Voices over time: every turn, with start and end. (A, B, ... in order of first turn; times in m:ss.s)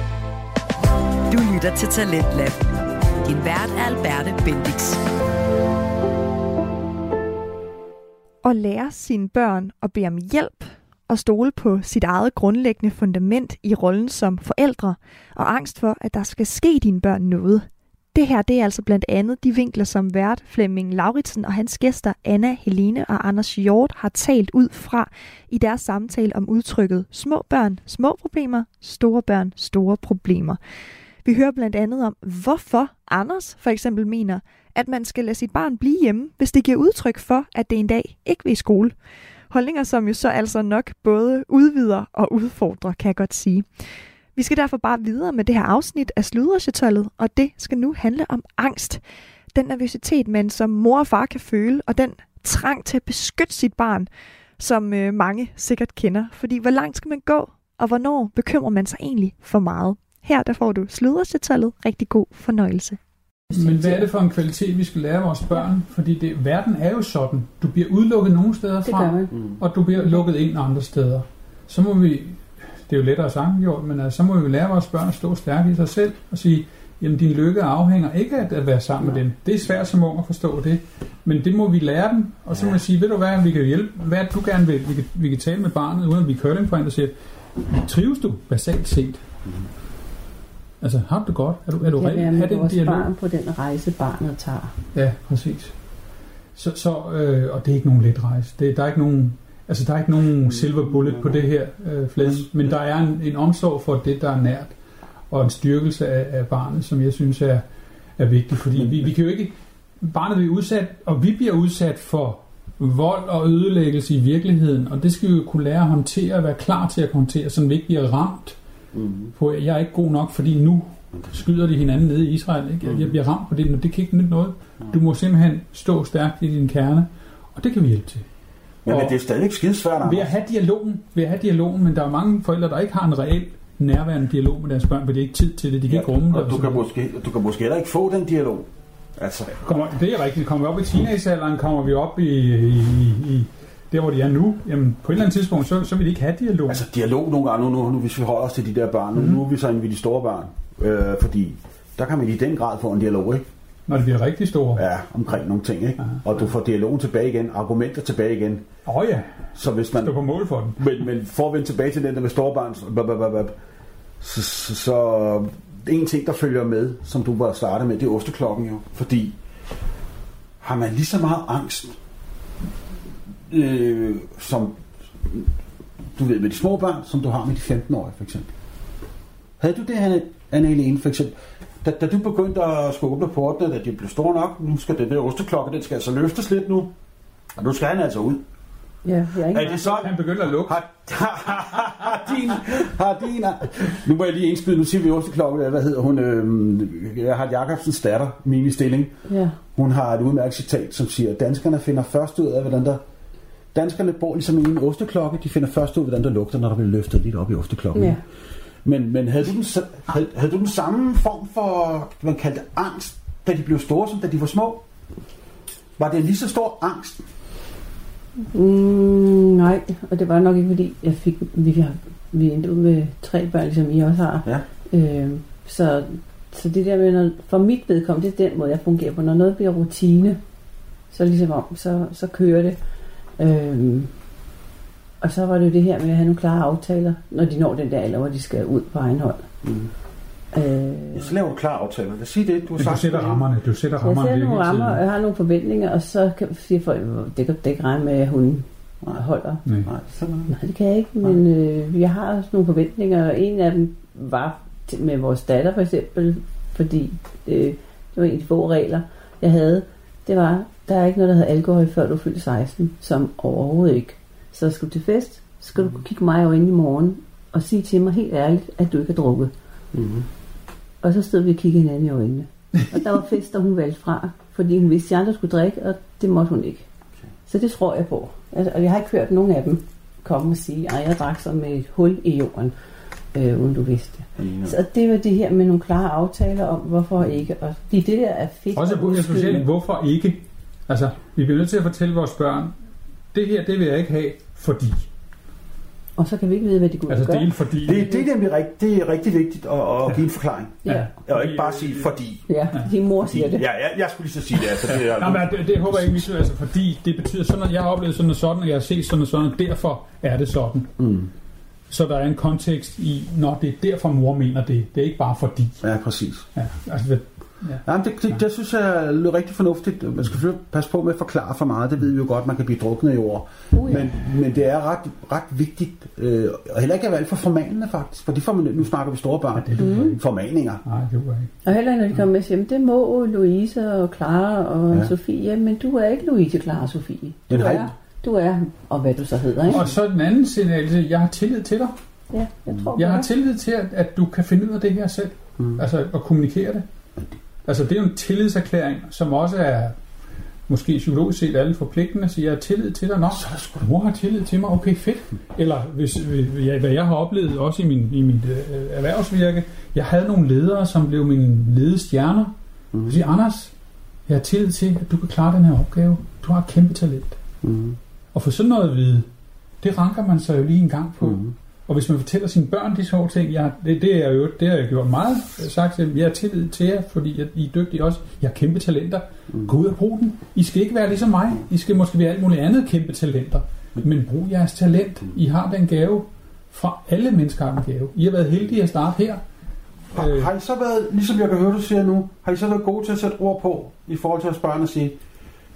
0:01.3-0:02.7 A
0:03.2-0:05.0 A
0:08.4-0:30.6 B
0:31.2-0:39.0 B
0:39.5-0:49.0 B
0:49.5-1:03.0 B
1:03.5-1:04.1 C
1:03.5-1:29.2 D
1:08.8-1:09.4 C
1:09.9-1:10.2 C
1:22.5-1:22.8 E
1:30.8-1:33.1 D
1:31.8-1:34.7 C
1:34.9-1:35.8 D
1:36.6-1:44.8 D
1:40.4-1:41.4 E
1:42.2-1:42.5 E
1:45.3-1:47.6 D
1:48.2-1:58.6 D
1:48.8-1:49.1 E
1:59.0-1:59.3 E
1:59.4-2:08.2 D
2:02.8-2:03.1 E
2:08.9-2:10.3 E
2:08.9-2:09.2 D
2:10.0-2:16.8 D
2:15.9-2:19.8 E
2:19.6-2:26.9 D
2:26.7-2:33.5 E
2:29.2-2:29.4 D
2:33.9-2:34.8 D
2:34.8-2:38.6 E
2:38.9-2:40.8 D
2:39.6-2:40.2 E
2:40.8-2:43.6 E
2:44.2-2:49.4 E
2:50.6-2:52.0 E
2:53.5-2:55.5 E
2:56.2-2:58.5 E
2:59.6-3:06.9 E
3:07.6-3:08.4 E
3:09.0-3:10.0 C
3:09.5-3:19.1 E
3:09.6-3:10.8 D
3:19.3-3:19.6 C
3:19.8-3:23.0 E
3:23.7-3:28.2 E
3:27.9-3:28.2 C
3:28.8-3:34.8 E
3:36.0-3:37.2 E
3:38.5-3:50.4 C
3:51.1-3:52.8 C
3:53.4-3:54.1 C
3:55.2-3:59.5 C
3:59.6-3:59.9 E
4:00.5-4:01.3 C
4:01.2-4:03.4 E
4:02.8-4:05.0 D
4:04.0-4:09.6 C
4:09.8-4:10.5 E
4:10.5-4:29.5 C
4:29.9-4:30.3 E
4:31.0-4:36.8 C
4:37.5-4:42.7 C
4:43.3-4:49.7 C
4:44.4-4:44.8 E
4:48.8-4:52.7 D
4:53.3-4:55.1 D
4:56.2-4:58.2 C
4:57.1-4:58.1 D
4:57.8-5:02.4 E
5:00.8-5:02.1 D
5:02.5-5:03.6 C
5:03.2-5:05.5 E
5:04.8-5:10.9 D
5:11.0-5:11.3 E
5:11.9-5:15.8 D
5:15.8-5:16.5 E
5:16.6-5:18.4 D
5:17.8-5:30.8 E
5:23.7-5:24.1 C
5:29.6-5:30.2 D
5:29.8-5:30.2 C
5:30.8-5:31.5 D
5:31.6-5:39.9 C
5:37.5-5:37.9 E
5:39.7-5:42.0 D
5:42.3-5:43.3 C
5:43.0-5:46.9 D
5:47.6-5:50.0 D
5:50.7-6:02.5 D
5:53.3-5:53.9 E
6:02.9-6:03.2 E
6:03.1-6:03.7 D
6:04.3-6:07.4 D
6:07.6-6:08.0 E
6:08.3-6:09.3 D
6:09.8-6:29.4 D
6:11.2-6:11.5 E
6:30.1-6:35.2 E
6:30.2-6:30.5 D